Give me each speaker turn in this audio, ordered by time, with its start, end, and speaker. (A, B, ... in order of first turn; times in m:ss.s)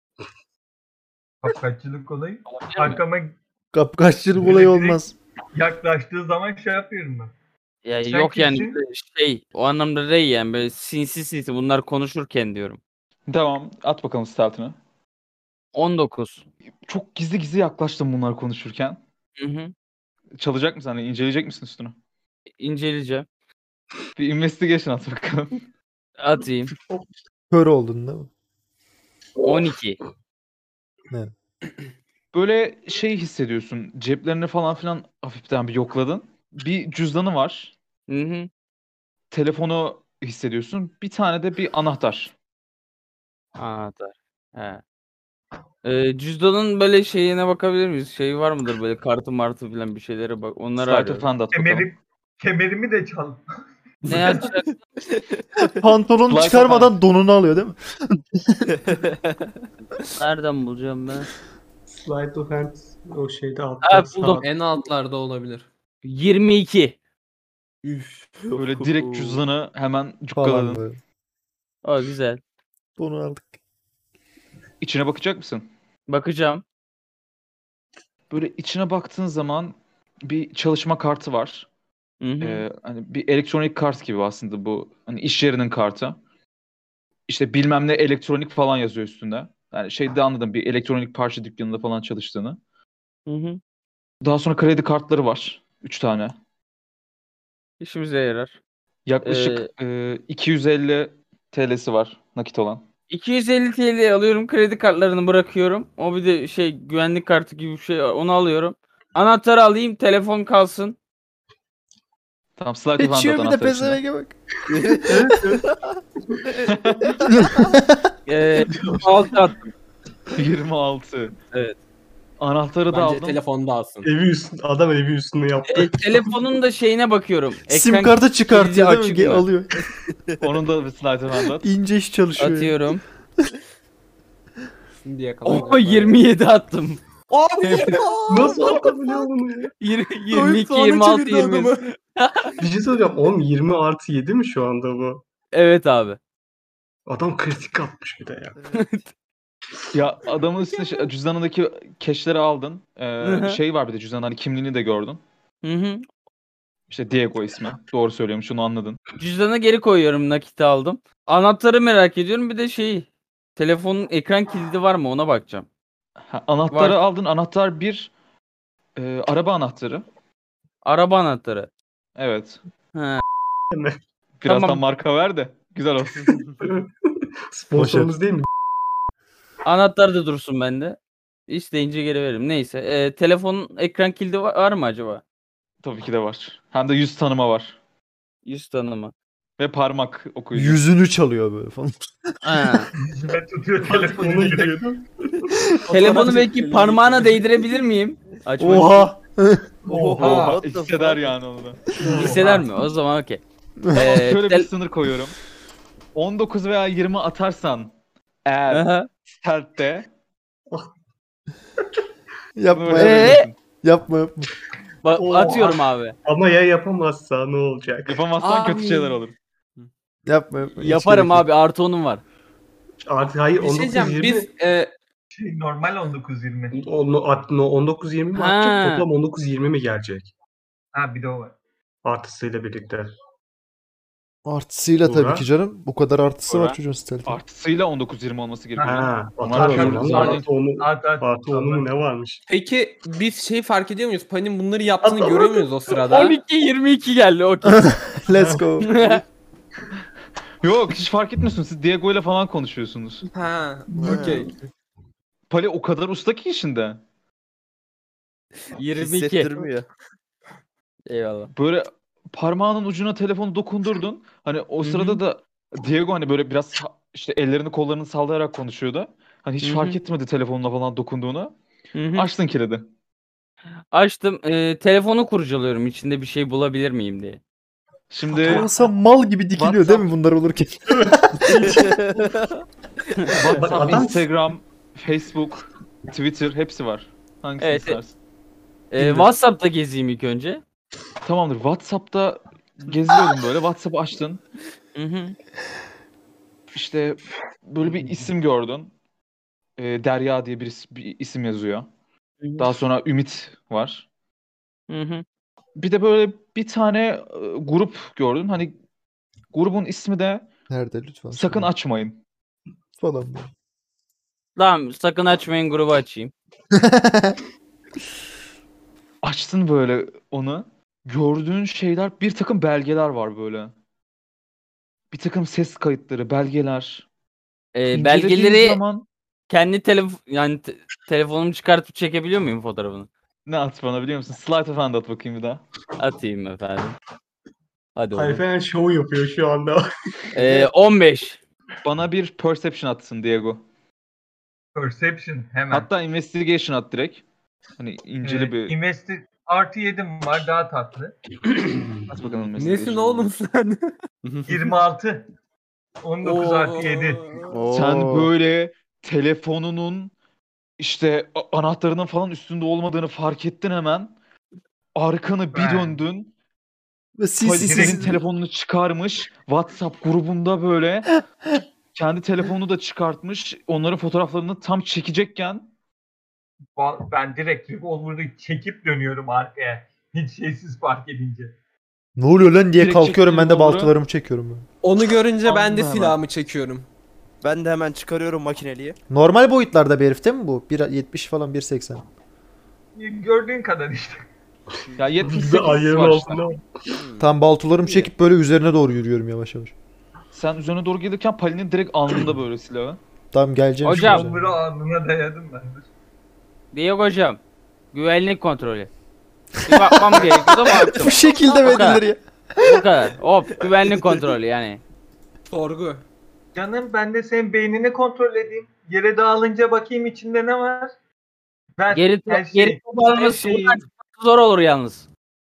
0:01.4-0:03.3 A
0:02.7-0:03.0 B
0:03.7-0:05.2 C
0:04.4-0:05.0 A
0:05.5-0:07.3 A
0:07.8-0:12.8 B
0:08.1-0:08.8 A
0:13.3-0:14.8 D
0:15.7-0:16.4 B
0:16.9-0:19.0 D
0:19.4-0:19.7 B
0:20.4-0:22.0 D
0:22.6-0:23.2 B
0:24.2-0:25.6 D
0:26.2-0:26.7 B
0:27.5-0:28.3 C
0:29.4-0:30.0 B
0:32.3-0:37.8 D
0:38.1-0:38.5 B
0:39.3-0:42.3 D
0:43.6-0:44.8 B
0:45.8-0:51.3 B
0:50.8-0:51.9 D
0:51.5-0:53.5 A
0:54.1-0:54.7 B
0:55.7-0:58.7 C
0:56.3-0:56.9 D
1:00.2-1:01.3 B
1:01.9-1:04.5 E
1:03.8-1:04.4 B
1:04.3-1:05.7 F
1:06.0-1:06.9 B
1:07.8-1:09.4 G
1:08.6-1:10.8 D
1:10.4-1:11.0 C
1:11.8-1:12.4 B
1:13.0-1:13.5 C
1:14.8-1:15.7 D
1:16.1-1:16.6 B
1:18.3-1:21.7 D
1:22.2-1:22.6 B
1:22.4-1:26.2 D
1:27.3-1:32.6 D
1:33.3-1:33.6 B
1:34.2-1:36.4 D
1:37.8-1:38.6 B
1:39.1-1:42.8 D
1:39.2-1:39.7 B
1:43.1-1:51.0 B
1:52.6-1:54.0 D
1:53.0-1:55.5 C
1:55.1-1:55.6 E
1:56.7-1:57.2 D
1:57.4-1:58.0 C
1:58.3-1:59.7 B
1:58.7-1:59.1 E
2:00.4-2:01.4 D
2:01.5-2:01.8 B
2:02.4-2:03.4 D
2:02.9-2:04.1 F
2:04.0-2:06.0 E
2:05.7-2:09.5 B
2:07.7-2:09.7 C
2:10.4-2:11.7 D
2:11.6-2:12.8 C
2:12.4-2:13.0 B
2:15.0-2:16.2 F
2:15.4-2:17.0 B
2:17.3-2:18.2 F
2:17.6-2:18.0 B
2:18.3-2:19.7 E
2:19.8-2:22.6 B
2:20.3-2:21.9 F
2:22.6-2:25.2 E
2:25.5-2:26.2 B
2:27.1-2:28.6 E
2:28.7-2:29.0 B
2:29.9-2:35.2 D
2:33.2-2:33.6 B
2:35.6-2:36.1 B
2:36.9-2:39.0 D
2:39.2-2:45.7 B
2:46.3-2:48.1 D
2:46.7-2:47.0 B
2:49.0-2:50.0 D
2:50.8-2:51.7 B
2:52.2-2:52.6 D
2:52.9-2:53.2 B
2:53.7-2:54.0 E
2:54.4-2:56.4 D
2:54.4-2:54.8 B
2:56.6-2:56.9 E
2:57.5-2:58.5 E
2:57.7-2:58.1 C
2:59.6-3:01.0 B
3:01.5-3:05.2 B
3:05.8-3:07.8 D
3:08.4-3:09.1 B
3:09.6-3:10.8 D
3:10.5-3:12.7 C
3:12.4-3:12.9 B
3:12.9-3:14.8 A
3:13.8-3:16.3 E
3:15.9-3:17.4 F
3:15.9-3:19.1 B
3:18.6-3:19.6 C
3:19.9-3:20.4 E
3:19.9-3:21.3 G
3:20.2-3:20.6 A
3:20.2-3:21.9 D
3:22.0-3:22.6 E
3:22.1-3:22.6 A
3:22.1-3:24.7 B
3:24.0-3:25.4 D
3:26.1-3:27.9 D
3:28.4-3:28.9 D
3:28.7-3:29.1 B
3:29.4-3:30.1 D
3:32.6-3:34.5 C
3:32.7-3:33.5 D
3:32.9-3:33.5 B
3:35.0-3:36.1 B
3:35.1-3:38.2 E
3:38.1-3:39.4 D
3:38.4-3:39.2 F
3:40.2-3:41.4 C
3:40.8-3:42.2 B
3:43.0-3:44.5 E
3:43.6-3:44.9 F
3:45.3-3:46.8 A
3:46.8-3:50.3 E
3:48.4-3:49.0 B
3:50.9-3:51.5 A
3:52.0-3:53.1 E
3:54.4-3:57.4 C
3:55.0-3:55.4 E
3:56.5-3:56.8 B
3:57.2-4:00.4 D
3:58.8-4:01.9 A
3:58.8-4:02.4 E
4:02.5-4:06.4 F
4:05.0-4:05.6 E
4:05.9-4:08.0 B
4:07.7-4:09.0 C
4:08.4-4:08.6 E
4:08.8-4:09.2 B
4:10.6-4:13.2 D
4:13.3-4:14.5 F
4:13.9-4:14.5 E
4:14.0-4:14.5 G
4:15.5-4:17.0 D
4:18.8-4:19.7 B
4:19.0-4:19.9 G
4:21.1-4:21.5 B
4:21.5-4:31.5 D
4:24.8-4:25.2 B
4:29.6-4:30.0 B
4:31.9-4:32.2 B
4:32.1-4:32.9 D
4:33.9-4:37.4 B
4:38.1-4:38.7 D
4:38.3-4:41.8 C
4:39.6-4:40.1 D
4:40.9-4:41.9 E
4:41.7-4:42.5 G
4:43.3-4:48.2 D
4:43.3-4:44.3 E
4:47.6-4:48.0 B
4:48.9-4:50.6 B
4:49.0-4:49.3 D
4:51.2-4:54.4 D
4:54.9-4:55.4 B
4:56.7-4:58.9 D
4:59.8-5:01.9 D
5:02.4-5:02.7 B
5:02.6-5:04.1 D
5:04.9-5:05.2 B
5:05.8-5:08.7 D
5:09.5-5:10.4 D
5:10.7-5:11.7 C
5:11.3-5:12.2 D
5:13.0-5:13.5 C
5:14.6-5:16.3 B
5:16.7-5:17.4 C
5:19.2-5:23.7 D
5:25.1-5:27.1 D
5:27.7-5:28.8 B
5:27.9-5:29.1 D
5:29.5-5:33.1 B
5:33.4-5:35.6 D
5:36.0-5:37.0 B
5:38.0-5:38.4 B
5:38.1-5:40.7 E
5:40.3-5:41.4 B
5:41.8-5:43.6 D
5:44.7-5:45.9 A
5:45.7-5:47.2 D
5:47.8-5:48.7 D
5:48.2-5:51.1 A
5:51.6-5:52.0 E
5:52.1-5:53.3 D
5:52.6-5:53.9 F
5:54.2-5:54.6 G
5:54.4-5:55.3 A
5:56.0-5:57.3 A
5:56.2-5:57.5 F
5:57.4-5:58.3 G
5:57.7-6:00.1 D
6:00.8-6:04.1 D
6:04.9-6:06.3 D
6:05.5-6:05.9 A
6:07.2-6:08.2 C
6:07.4-6:11.2 D
6:07.5-6:08.1 A
6:11.9-6:15.7 D
6:16.8-6:21.6 A
6:22.2-6:24.6 C
6:22.8-6:23.9 D
6:24.8-6:26.8 F
6:25.4-6:26.2 D
6:27.4-6:29.0 G
6:29.1-6:32.0 C
6:32.9-6:34.3 A
6:35.0-6:36.4 D
6:35.3-6:36.8 E
6:36.9-6:37.3 G
6:37.2-6:39.7 C
6:40.3-6:43.0 D
6:43.3-6:44.6 C
6:43.8-6:44.3 B
6:43.9-6:45.9 A
6:46.7-6:47.4 B
6:47.9-6:48.9 B
6:49.7-6:52.0 B
6:49.7-6:52.8 C
6:52.6-6:54.8 B
6:55.5-6:56.0 F
6:56.6-7:00.9 A
7:01.8-7:03.7 A
7:01.9-7:05.1 B